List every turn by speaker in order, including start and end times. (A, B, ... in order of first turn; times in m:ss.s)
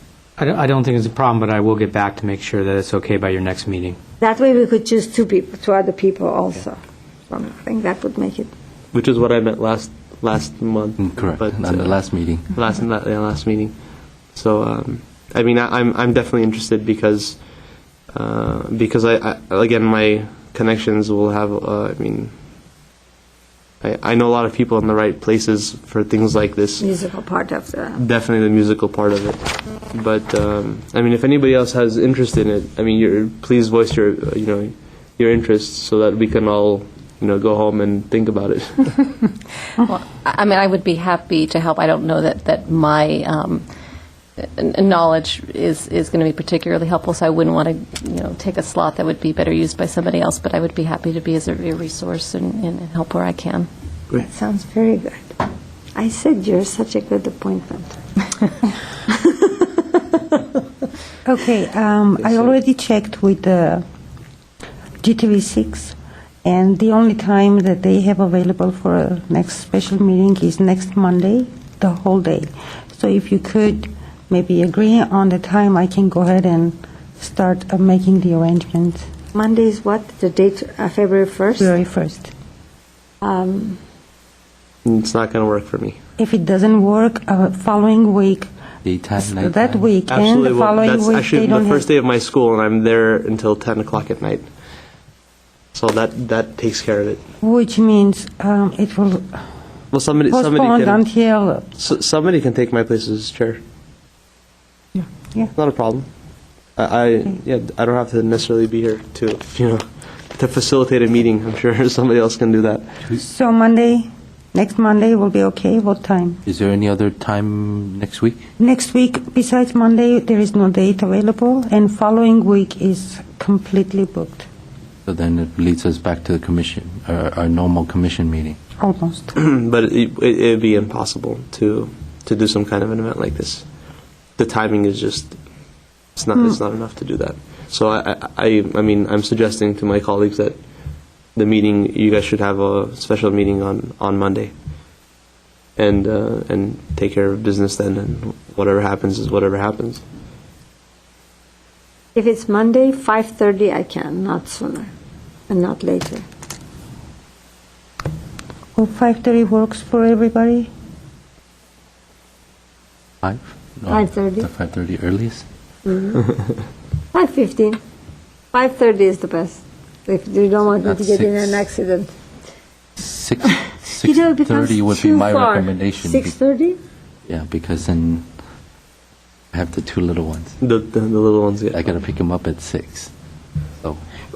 0:00.4-0:04.0 A
0:04.2-0:06.8 B
0:07.3-0:08.5 B
0:08.9-0:13.8 C
0:11.0-0:12.5 D
0:14.3-0:17.5 C
0:18.1-0:22.3 C
0:23.8-0:26.9 C
0:26.8-0:28.0 B
0:28.0-0:39.2 C
0:39.8-0:43.6 E
0:44.6-0:53.7 E
0:54.2-0:55.4 B
0:56.0-0:58.5 B
0:59.1-1:00.4 B
1:01.2-1:03.8 F
1:05.0-1:19.1 F
1:19.3-1:21.7 B
1:21.6-1:22.3 F
1:23.2-1:23.8 B
1:24.8-1:26.0 C
1:26.2-1:28.5 F
1:28.8-1:29.8 D
1:29.2-1:31.9 F
1:30.1-1:34.5 C
1:35.7-1:37.2 C
1:37.4-1:39.4 F
1:39.9-1:41.0 C
1:40.3-1:41.8 F
1:41.8-1:43.6 C
1:45.6-1:46.1 C
1:46.8-1:49.8 C
1:50.3-1:52.9 C
1:53.1-1:56.4 F
1:56.5-1:58.5 D
1:58.6-2:04.5 F
2:05.1-2:08.6 D
2:08.8-2:09.4 F
2:09.4-2:13.7 C
2:14.4-2:15.4 C
2:16.2-2:20.6 C
2:21.4-2:24.5 C
2:25.8-2:30.0 C
2:32.2-2:34.9 B
2:35.5-2:36.3 B
2:38.8-2:40.7 F
2:43.2-2:45.5 D
2:43.9-2:44.5 B
2:45.8-2:46.3 B
2:47.1-2:47.8 B
2:48.5-2:52.1 B
2:50.8-2:51.7 D
2:53.0-2:56.4 D
2:53.9-2:56.8 B
2:57.3-2:58.3 D
2:59.5-3:00.6 D
3:00.6-3:01.9 C
3:01.7-3:03.1 D